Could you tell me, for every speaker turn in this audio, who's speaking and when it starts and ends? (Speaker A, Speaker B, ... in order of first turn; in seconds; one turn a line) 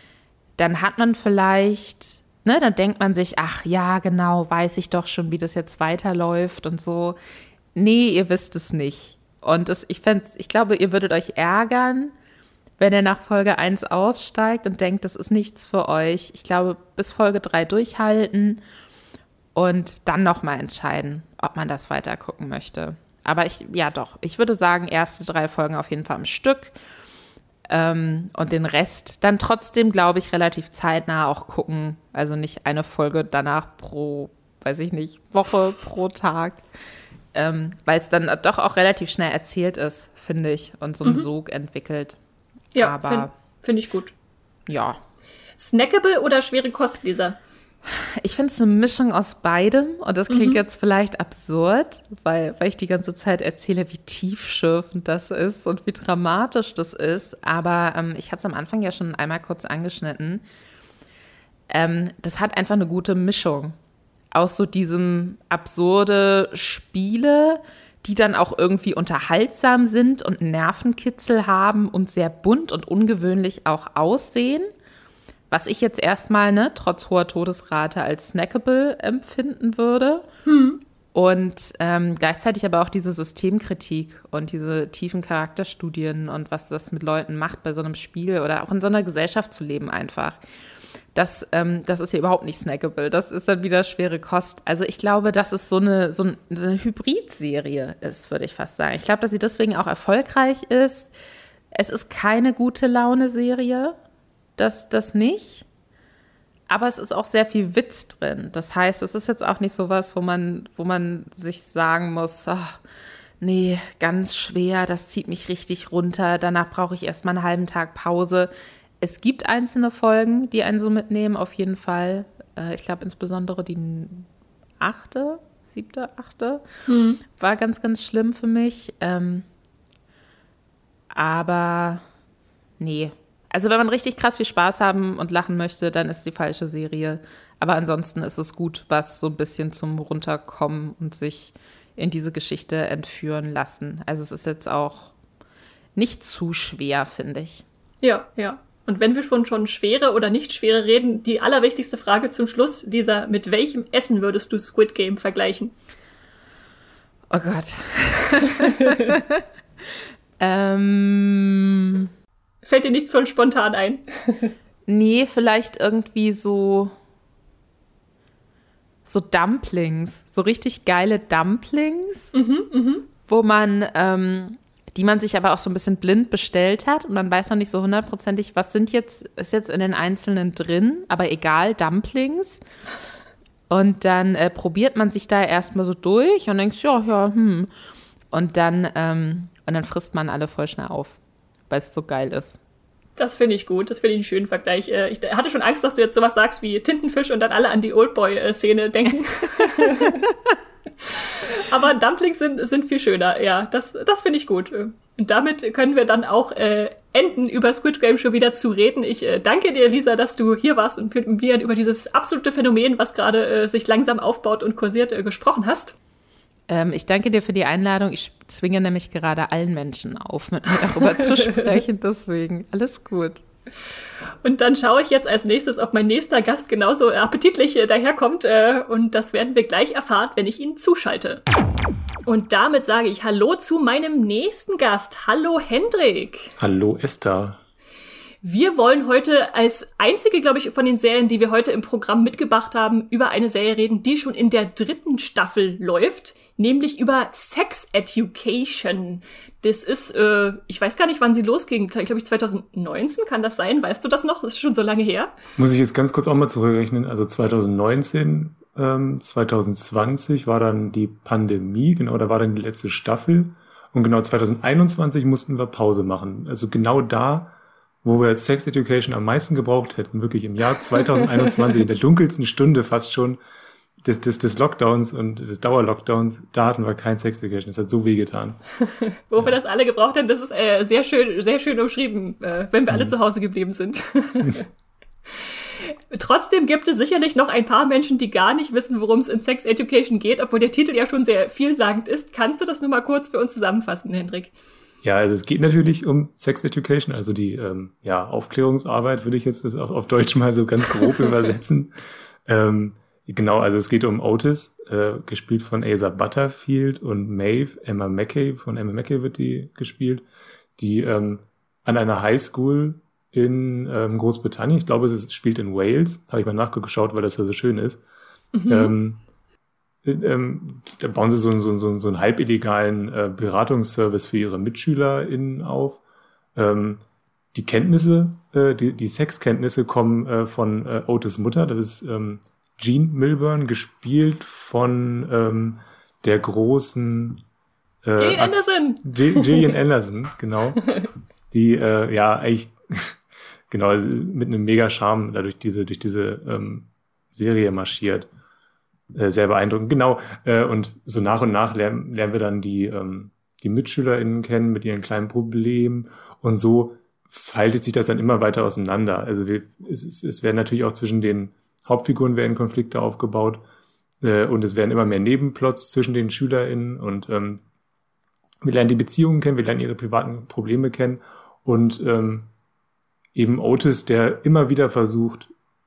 Speaker A: 0.6-7.2
Speaker A: 7.8-12.1
Speaker A: 12.8-18.6
Speaker A: 19.6-26.7
Speaker A: 27.7-36.6
Speaker A: 37.3-42.2
Speaker B: 42.7-44.1
Speaker A: 42.8-43.3
Speaker A: 44.7-45.0
Speaker B: 45.6-47.4
Speaker A: 48.2-60.4
Speaker B: 50.3-50.6
Speaker A: 61.7-63.8
Speaker A: 64.3-74.7
Speaker A: 75.5-80.3
Speaker B: 80.5-80.8
Speaker A: 81.1-90.4
Speaker A: 91.2-101.1
Speaker A: 101.7-104.0
Speaker A: 104.6-105.7
Speaker A: 106.7-112.8
Speaker A: 113.4-124.3
Speaker A: 124.8-126.6
Speaker B: 126.9-127.2
Speaker A: 127.3-129.4
Speaker A: 131.1-132.0
Speaker A: 132.8-145.1
Speaker A: 146.0-147.6
Speaker B: 148.0-155.7
Speaker A: 157.3-159.4
Speaker A: 160.4-162.1
Speaker B: 162.6-164.5
Speaker A: 164.9-166.9
Speaker A: 169.1-172.3
Speaker B: 172.3-173.1
Speaker A: 173.3-182.6
Speaker A: 183.7-187.7
Speaker A: 188.3-191.2
Speaker A: 191.7-192.6
Speaker B: 193.2-200.3
Speaker B: 201.0-216.0
Speaker A: 216.7-223.4
Speaker B: 221.0-221.8
Speaker B: 224.4-231.4
Speaker B: 232.2-236.5
Speaker C: 236.6-237.6
Speaker B: 238.4-255.3
Speaker C: 255.6-273.4
Speaker B: 271.2-271.5
Speaker C: 274.0-278.6
Speaker B: 279.3-284.6
Speaker B: 285.4-294.5
Speaker C: 295.0-301.9
Speaker C: 302.5-310.2
Speaker C: 310.8-318.0
Speaker B: 318.6-318.9
Speaker C: 318.7-319.2
Speaker C: 320.0-326.0
Speaker C: 326.6-327.0
Speaker C: 327.5-337.4
Speaker C: 338.0-340.8
Speaker B: 338.2-339.7
Speaker C: 341.5-348.3
Speaker C: 349.1-363.6
Speaker C: 364.2-367.6
Speaker C: 368.6-372.5
Speaker C: 373.3-375.5